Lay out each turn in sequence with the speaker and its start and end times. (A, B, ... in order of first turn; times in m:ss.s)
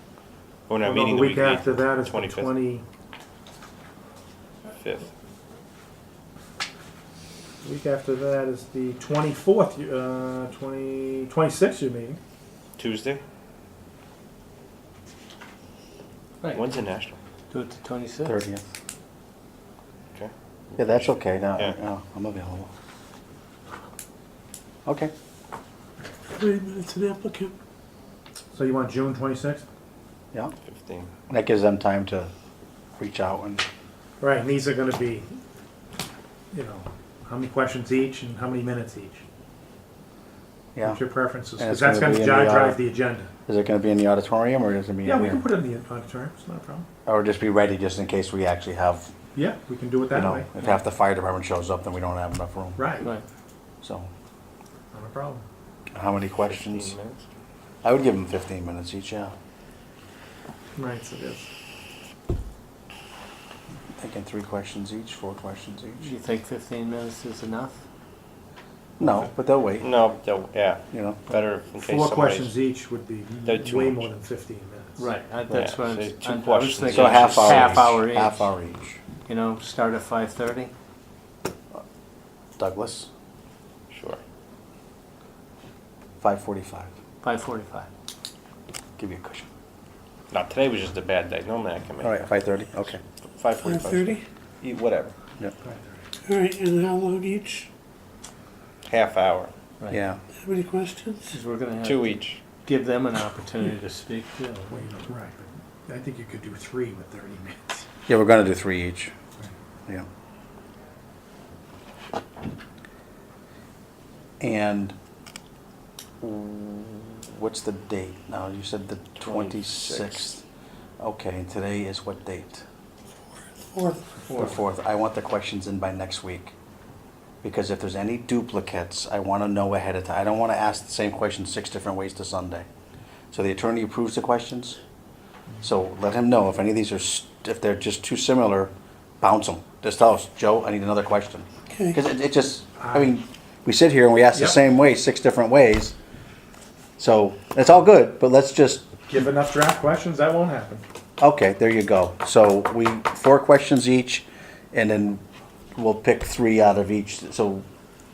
0:00.7-0:02.5 A
0:00.8-0:02.8 B
0:04.8-0:05.1 A
0:07.6-0:12.2 B
0:12.8-0:13.2 A
0:16.5-0:17.2 A
0:17.5-0:18.4 C
0:18.2-0:18.6 D
0:20.2-0:21.8 A
0:20.8-0:22.7 D
0:24.8-0:25.1 D
0:26.4-0:27.5 C
0:28.5-0:29.6 B
0:30.6-0:31.1 A
0:31.3-0:32.3 D
0:33.0-0:33.6 D
0:34.2-0:35.3 B
0:36.5-0:39.2 B
0:40.8-0:41.0 D
0:40.8-0:43.3 B
0:41.6-0:42.8 D
0:43.5-0:45.4 D
0:45.0-0:46.9 B
0:47.1-0:49.1 D
0:49.4-0:50.7 B
0:50.1-0:52.9 D
0:52.8-0:53.1 B
0:53.8-0:54.1 D
0:54.9-0:55.4 B
0:55.9-0:56.9 D
0:56.4-0:57.2 A
0:57.8-0:59.3 D
1:00.8-1:01.5 B
1:04.0-1:06.1 D
1:06.0-1:07.8 C
1:09.0-1:09.9 D
1:09.8-1:12.5 A
1:10.9-1:11.2 D
1:11.8-1:15.1 B
1:13.5-1:14.1 A
1:15.0-1:18.5 C
1:15.5-1:17.9 A
1:16.9-1:19.0 D
1:19.3-1:20.7 C
1:22.6-1:23.1 D
1:23.9-1:24.2 A
1:26.2-1:26.9 D
1:27.2-1:27.9 C
1:29.0-1:29.5 D
1:30.3-1:32.2 A
1:32.0-1:33.0 D
1:33.3-1:35.1 A
1:33.7-1:34.2 C
1:35.6-1:36.1 B
1:36.2-1:37.6 C
1:36.4-1:37.7 E
1:38.9-1:39.5 A
1:39.9-1:40.2 D
1:40.4-1:41.4 E
1:41.3-1:44.8 C
1:41.8-1:42.4 A
1:44.7-1:47.9 B
1:48.1-1:49.1 D
1:54.4-1:55.0 D
1:56.2-2:00.4 D
1:59.2-2:00.3 A
2:01.0-2:02.6 D
2:03.8-2:04.5 C
2:04.3-2:06.5 D
2:07.4-2:12.7 D
2:13.3-2:14.8 D
2:15.6-2:26.0 D
2:22.8-2:23.1 B
2:27.0-2:28.9 D
2:29.1-2:30.8 B
2:31.2-2:35.2 D
2:35.8-2:37.6 D